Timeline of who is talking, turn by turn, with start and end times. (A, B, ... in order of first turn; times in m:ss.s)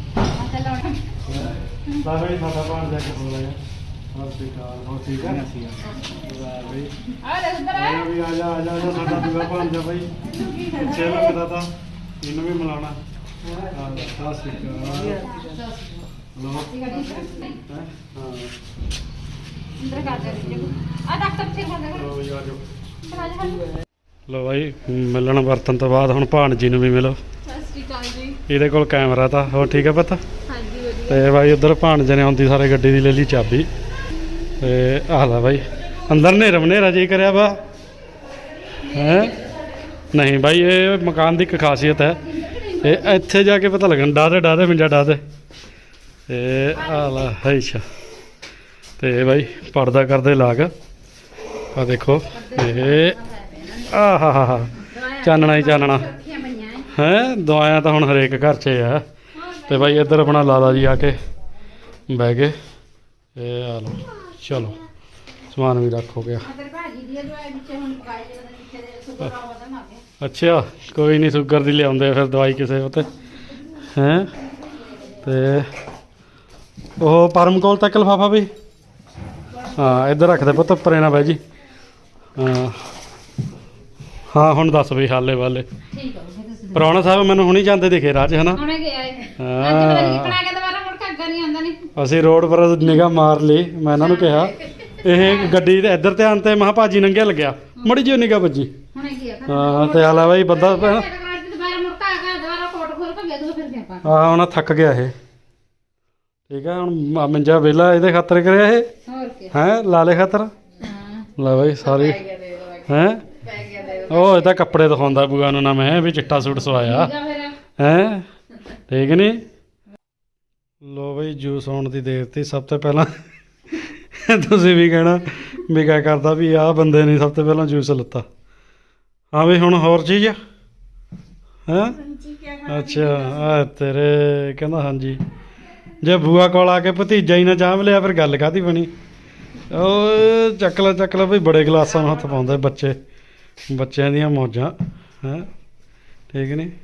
0:00.4-0:01.0 A
0:01.2-0:03.6 B
0:04.1-0:06.9 B
0:07.2-0:08.1 A
0:07.7-0:10.1 B
0:10.4-0:10.7 A
0:10.6-0:11.7 B
0:12.2-0:13.0 B
0:13.6-0:15.3 B
0:15.2-0:16.1 A
0:16.4-0:17.0 B
0:16.7-0:17.6 A
0:17.6-0:18.5 B
0:19.8-0:22.1 A
0:20.3-0:20.7 B
0:21.9-0:22.6 B
0:23.0-0:23.6 A
0:24.3-0:27.2 B
0:27.5-0:28.4 A
0:28.5-0:30.2 B
0:30.5-0:31.2 A
0:31.1-0:33.7 B
0:34.6-0:37.6 B
0:38.8-0:39.4 B
0:40.1-0:42.2 B
0:42.4-0:43.0 A
0:42.8-0:45.2 B
0:46.3-0:47.8 B
0:49.0-0:50.7 B
0:51.7-0:53.2 B
0:52.3-0:53.9 A
0:53.8-0:56.1 B
0:54.8-0:56.9 A
0:56.9-0:59.0 B
0:59.4-1:00.6 A
0:59.7-1:01.2 B
1:02.1-1:02.6 B
1:03.4-1:04.8 B
1:05.5-1:06.5 B
1:06.4-1:10.0 A
1:10.2-1:13.1 B
1:13.8-1:14.3 B
1:15.2-1:15.7 B
1:17.0-1:18.5 B
1:19.7-1:21.4 B
1:22.4-1:22.8 B
1:24.3-1:25.6 B
1:25.9-1:27.0 A
1:26.7-1:28.6 B
1:28.6-1:31.9 A
1:29.4-1:30.4 B
1:32.0-1:38.7 B
1:34.2-1:34.5 A
1:38.9-1:44.1 A
1:39.5-1:41.1 B
1:44.0-1:45.1 B
1:46.5-1:48.9 B
1:49.1-1:49.5 A
1:49.5-1:50.5 B
1:50.8-1:51.3 A
1:51.4-1:52.2 B
1:51.9-1:52.8 A
1:52.8-1:53.3 B
1:53.4-1:54.4 A
1:54.1-1:57.1 B
1:56.8-1:57.6 A
1:57.8-1:58.2 B
1:58.9-1:59.4 B
2:00.8-2:03.1 B
2:03.8-2:08.2 B
2:09.3-2:10.4 B
2:11.7-2:15.2 B
2:16.0-2:18.9 B
2:19.7-2:23.0 B
2:23.7-2:25.5 B
2:26.3-2:26.7 B